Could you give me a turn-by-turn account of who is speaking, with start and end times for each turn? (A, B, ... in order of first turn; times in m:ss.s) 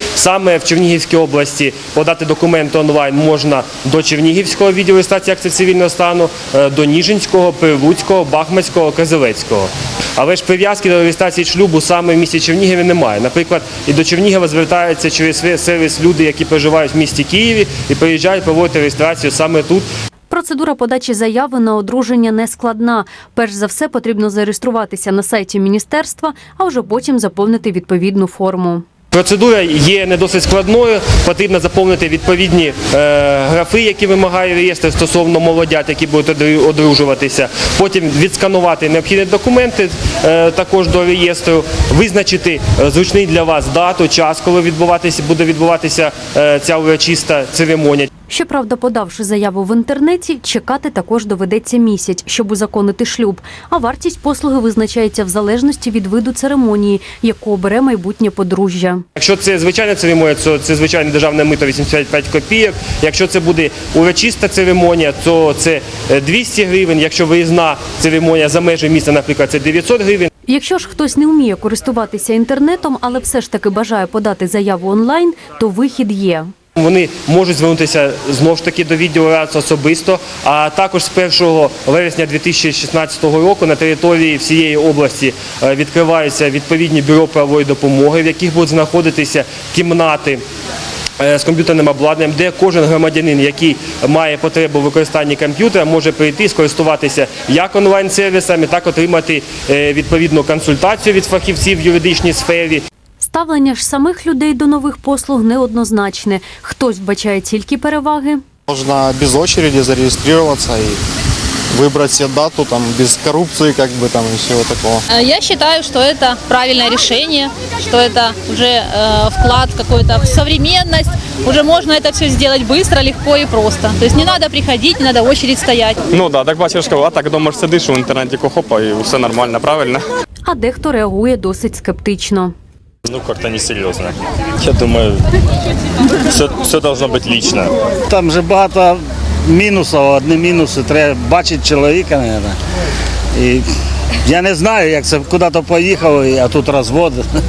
0:00.2-0:19.9 A
0:20.3-0:28.8 B
0:29.1-0:48.1 A
0:48.3-0:59.0 B
0:59.2-1:10.3 A
1:10.5-1:16.5 B
1:16.8-1:30.4 A
1:31.2-1:42.8 A
1:43.2-1:48.4 B
1:48.7-1:51.0 C
1:51.7-1:55.0 C
1:55.1-2:06.0 D
2:06.1-2:10.0 E
2:10.4-2:12.5 B
2:13.1-2:15.2 F
2:16.3-2:17.8 F
2:18.1-2:22.6 G
2:23.4-2:23.7 G
2:24.2-2:27.2 G